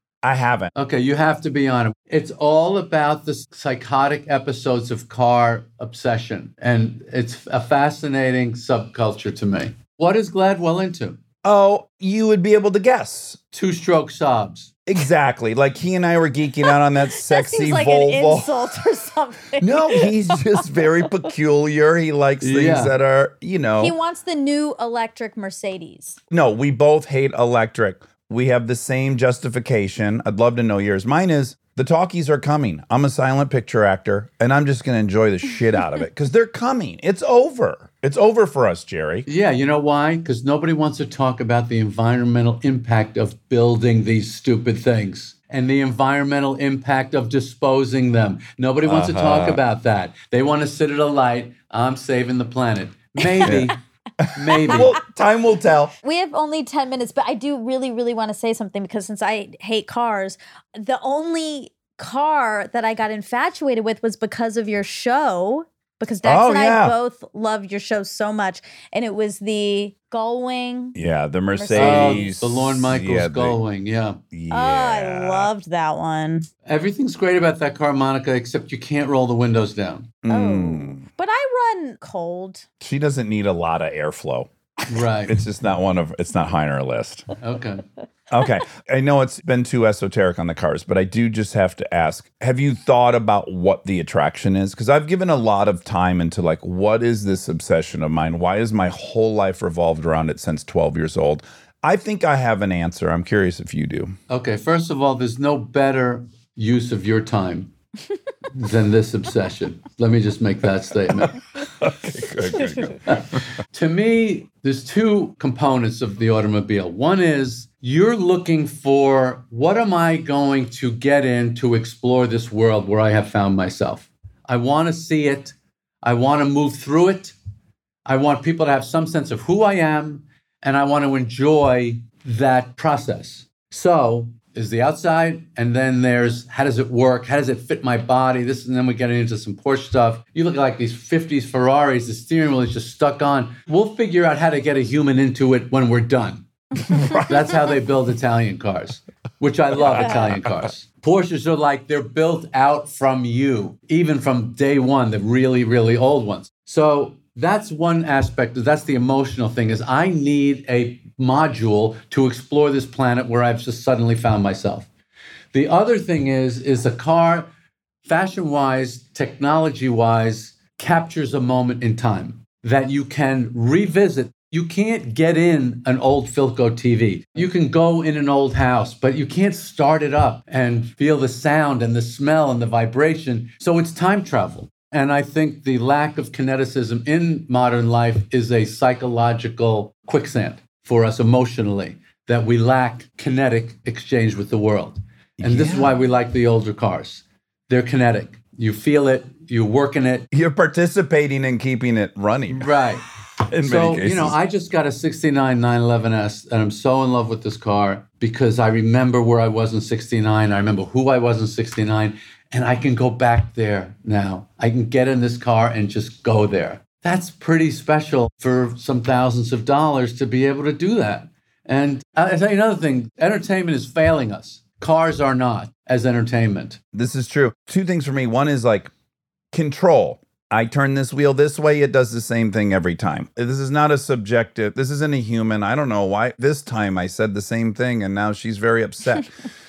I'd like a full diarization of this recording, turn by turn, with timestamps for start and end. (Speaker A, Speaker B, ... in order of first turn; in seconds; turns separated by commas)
Speaker A: 0.2-0.7, Speaker B: 0.8-11.2, Speaker A: 11.4-13.4, Speaker B: 13.5-14.7, Speaker A: 14.9-18.5, Speaker C: 17.1-20.9, Speaker A: 19.6-23.9, Speaker B: 22.4-22.9, Speaker C: 23.8-26.2, Speaker A: 26.3-39.3, Speaker B: 39.3-53.8, Speaker A: 48.8-49.6, Speaker A: 53.4-55.9, Speaker B: 54.4-55.0, Speaker C: 56.0-71.0, Speaker A: 66.2-67.0, Speaker A: 71.0-73.6, Speaker C: 71.5-72.3, Speaker B: 71.8-74.2, Speaker A: 74.3-75.5, Speaker C: 74.5-76.5, Speaker B: 76.7-80.1, Speaker A: 80.2-81.0, Speaker C: 80.3-82.7, Speaker A: 82.8-87.3, Speaker B: 84.9-85.4, Speaker B: 87.4-87.8, Speaker A: 88.3-104.2, Speaker B: 104.3-107.7, Speaker B: 108.5-111.4, Speaker A: 111.2-113.4, Speaker B: 113.1-127.3, Speaker B: 128.1-146.5, Speaker A: 146.9-147.5, Speaker B: 147.1-164.9, Speaker A: 149.8-150.2, Speaker C: 150.0-150.3, Speaker B: 165.5-167.5, Speaker B: 168.0-200.3, Speaker A: 195.4-196.0, Speaker A: 200.3-202.7, Speaker B: 202.5-203.1, Speaker A: 203.5-204.4, Speaker B: 203.6-226.8, Speaker A: 226.9-228.9, Speaker A: 229.5-239.3